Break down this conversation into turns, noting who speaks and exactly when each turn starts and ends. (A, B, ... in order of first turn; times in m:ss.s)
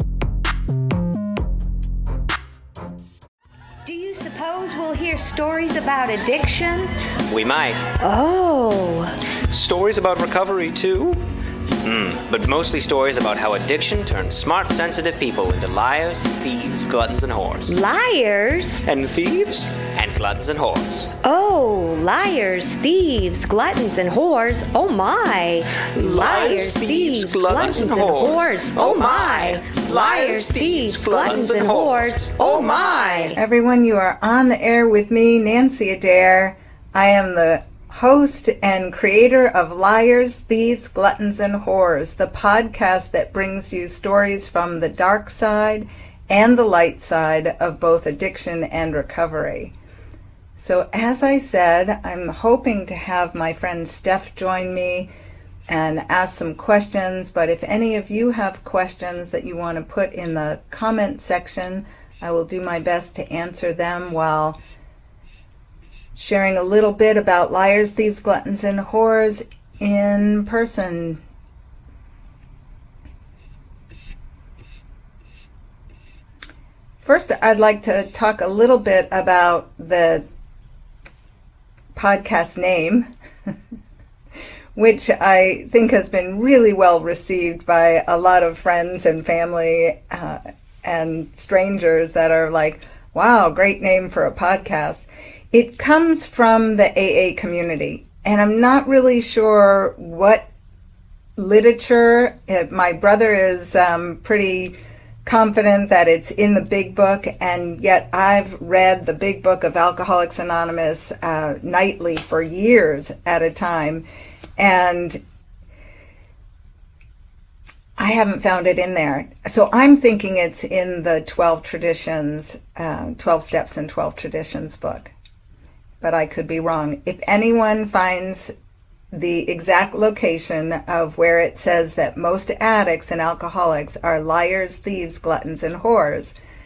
0:03.8-0:06.9 A
0:07.3-0:07.9 B
0:07.9-0:09.1 A
0:09.5-0:11.2 B
0:11.8-0:17.8 B
0:17.6-0:18.9 A
0:18.8-0:21.1 B
0:21.2-0:33.4 A
0:25.8-0:32.9 B
0:33.4-0:49.7 C
0:50.6-0:55.1 C
0:55.7-1:04.6 C
1:06.1-1:11.2 C
1:17.0-1:20.2 C
1:21.9-1:23.1 C
1:24.7-1:40.5 C
1:41.4-1:54.0 C
1:54.6-1:55.2 C
1:58.0-2:05.1 C
2:06.0-2:08.5 C
2:09.1-2:16.3 C